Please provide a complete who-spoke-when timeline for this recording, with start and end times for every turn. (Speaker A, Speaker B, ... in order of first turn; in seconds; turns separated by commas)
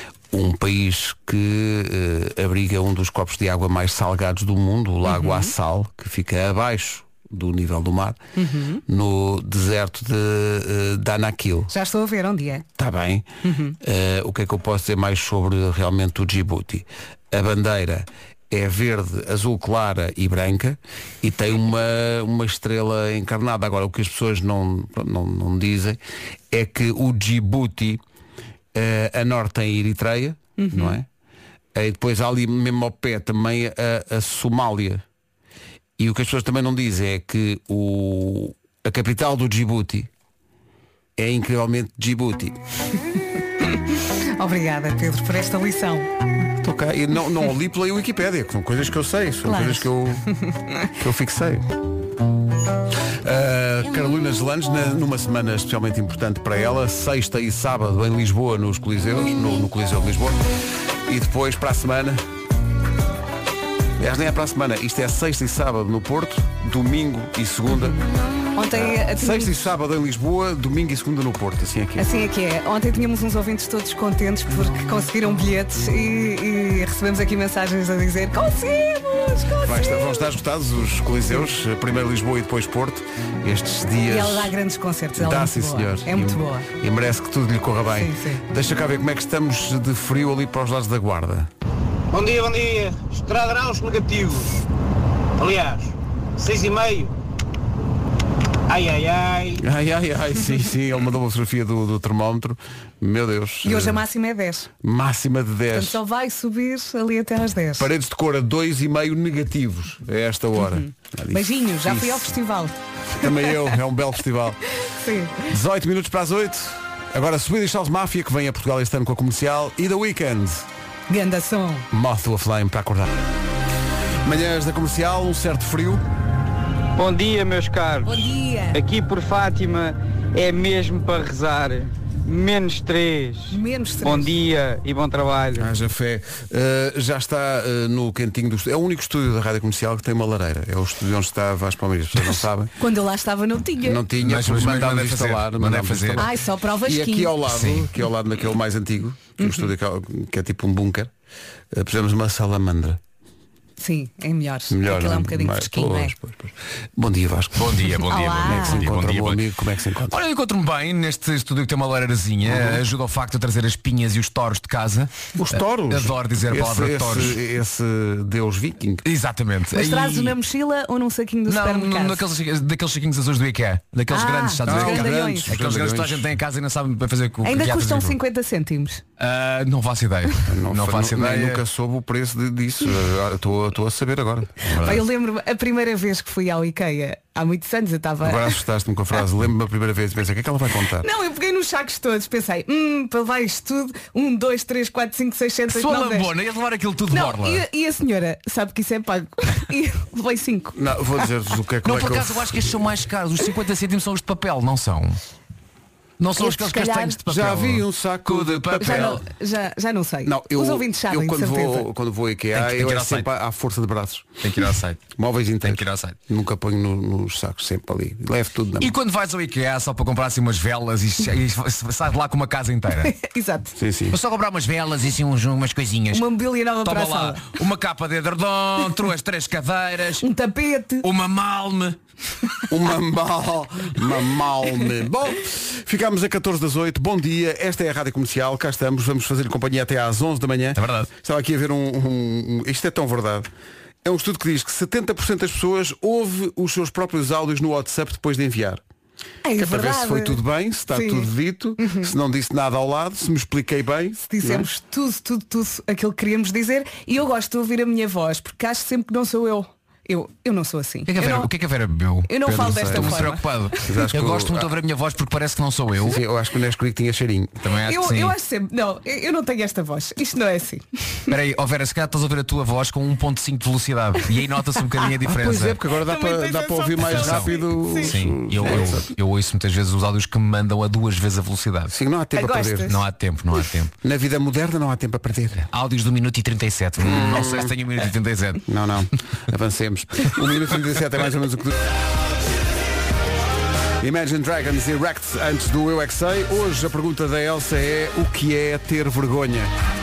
Speaker A: 0.3-8.2, Speaker B: 5.0-5.5, Speaker B: 8.3-8.8, Speaker A: 8.8-11.7, Speaker B: 11.7-12.7, Speaker A: 12.8-13.3, Speaker B: 13.4-13.8, Speaker A: 13.8-26.0, Speaker A: 26.5-28.0, Speaker A: 28.7-31.1, Speaker B: 30.6-31.0, Speaker A: 31.7-35.0, Speaker A: 36.0-40.1, Speaker A: 41.1-42.6, Speaker B: 43.6-46.1, Speaker A: 46.6-50.2, Speaker B: 49.5-50.6, Speaker A: 51.0-51.7, Speaker A: 53.2-60.4, Speaker A: 61.1-62.2, Speaker A: 64.0-68.0, Speaker B: 68.5-69.5, Speaker A: 68.7-72.1, Speaker B: 72.0-80.3, Speaker A: 79.6-84.5, Speaker B: 84.1-86.7, Speaker A: 85.2-91.5, Speaker B: 87.9-88.4, Speaker C: 92.1-94.6, Speaker C: 95.4-97.1, Speaker C: 98.7-99.6, Speaker A: 99.6-104.0, Speaker B: 103.6-104.7, Speaker A: 104.8-106.0, Speaker B: 105.7-107.9, Speaker A: 107.8-112.3, Speaker B: 110.6-113.5, Speaker A: 113.1-114.6, Speaker B: 114.8-115.5, Speaker A: 115.5-120.6, Speaker B: 121.1-121.9, Speaker A: 121.9-123.1, Speaker A: 124.2-126.0, Speaker D: 127.0-135.7, Speaker B: 128.0-128.8, Speaker B: 133.5-134.3, Speaker A: 135.6-142.7, Speaker B: 142.8-144.0, Speaker A: 143.8-151.1, Speaker E: 144.2-146.3, Speaker B: 146.2-147.4, Speaker E: 147.5-147.9, Speaker B: 149.4-149.7, Speaker A: 151.7-153.0, Speaker B: 153.8-156.1, Speaker A: 154.7-157.9, Speaker E: 157.6-159.4, Speaker B: 158.1-158.8, Speaker A: 158.4-160.2, Speaker E: 160.1-167.4, Speaker A: 162.4-162.8, Speaker A: 165.4-169.0, Speaker E: 169.0-170.4, Speaker B: 169.7-172.2, Speaker E: 171.5-178.2, Speaker B: 174.1-175.5, Speaker A: 174.6-176.3, Speaker B: 177.4-179.0, Speaker E: 179.2-181.6, Speaker A: 180.5-185.0, Speaker B: 184.8-188.5, Speaker A: 188.2-191.1, Speaker B: 191.0-196.3, Speaker E: 195.7-197.6, Speaker B: 197.1-200.8, Speaker A: 200.7-202.7, Speaker E: 201.8-205.2, Speaker E: 206.2-209.2, Speaker B: 206.3-207.2, Speaker A: 207.2-209.2, Speaker B: 208.8-211.9, Speaker A: 210.2-214.3, Speaker E: 212.5-213.3, Speaker E: 214.4-215.1, Speaker A: 215.1-218.9, Speaker E: 215.6-216.2, Speaker E: 218.8-223.1, Speaker B: 223.0-223.7, Speaker A: 223.8-224.2, Speaker E: 224.1-226.3, Speaker B: 226.1-227.5, Speaker E: 226.8-230.3, Speaker B: 230.2-231.1, Speaker E: 231.0-232.0, Speaker A: 232.7-243.5, Speaker E: 240.8-241.1, Speaker A: 244.0-248.8, Speaker B: 249.4-252.1, Speaker A: 249.6-254.7, Speaker B: 254.2-261.5, Speaker E: 261.1-266.2, Speaker B: 262.2-263.4, Speaker A: 262.5-264.7, Speaker A: 266.0-267.6, Speaker E: 267.6-268.3, Speaker B: 267.9-271.3, Speaker E: 271.3-275.8, Speaker A: 275.2-279.1, Speaker B: 276.0-278.1, Speaker E: 277.0-281.9, Speaker A: 281.9-283.0, Speaker B: 282.4-283.0, Speaker E: 282.9-283.9, Speaker A: 284.0-285.6, Speaker E: 285.6-288.6, Speaker A: 287.0-287.7, Speaker A: 288.7-291.8, Speaker A: 294.0-299.7